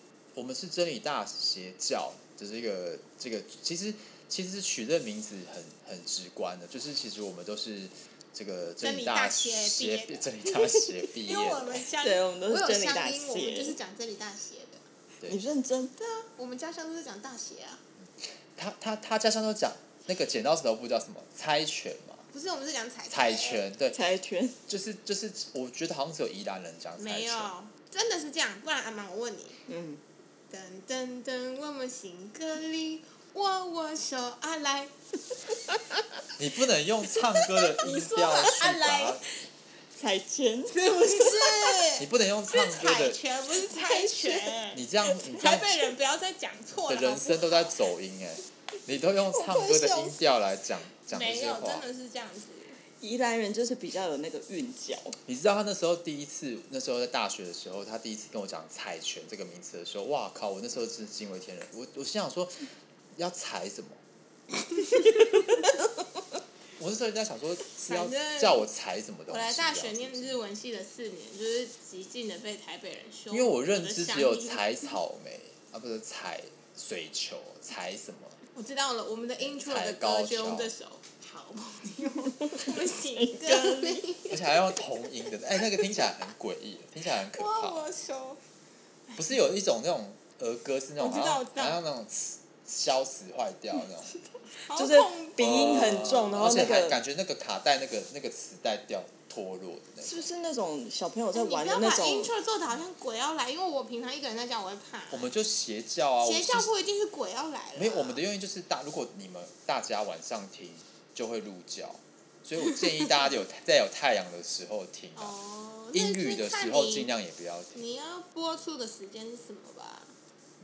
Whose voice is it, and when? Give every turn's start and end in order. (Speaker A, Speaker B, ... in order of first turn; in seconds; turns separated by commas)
Speaker A: 0.3-11.8, Speaker B: 8.8-14.8, Speaker C: 12.0-13.8, Speaker C: 15.3-15.9, Speaker B: 16.0-17.8, Speaker A: 18.0-22.3, Speaker B: 22.3-23.6, Speaker A: 23.1-24.0, Speaker C: 23.9-24.6, Speaker A: 24.7-27.5, Speaker B: 27.0-29.6, Speaker C: 29.7-30.0, Speaker B: 30.5-34.9, Speaker A: 36.4-39.2, Speaker B: 37.8-39.2, Speaker C: 37.8-38.4, Speaker C: 40.0-41.8, Speaker B: 40.7-47.8, Speaker A: 42.0-43.2, Speaker C: 43.8-44.5, Speaker A: 44.7-45.8, Speaker A: 46.9-51.9, Speaker C: 49.3-50.2, Speaker B: 51.1-52.8, Speaker C: 53.0-55.2, Speaker A: 55.3-64.0, Speaker B: 64.8-65.3, Speaker A: 66.8-70.4, Speaker B: 67.8-68.7, Speaker B: 69.3-74.7, Speaker A: 73.3-78.4, Speaker B: 78.5-84.4, Speaker A: 79.4-80.7, Speaker C: 83.2-84.0, Speaker A: 84.3-87.9, Speaker B: 85.6-86.1, Speaker B: 87.3-88.4, Speaker A: 89.2-94.2, Speaker B: 91.0-91.8, Speaker B: 94.5-95.8, Speaker C: 94.7-97.0, Speaker A: 95.4-100.3, Speaker C: 100.0-102.3, Speaker B: 101.3-105.3, Speaker A: 105.1-106.7, Speaker B: 106.2-108.2, Speaker A: 107.8-115.3, Speaker B: 115.2-117.1, Speaker A: 115.9-117.8, Speaker B: 117.7-120.2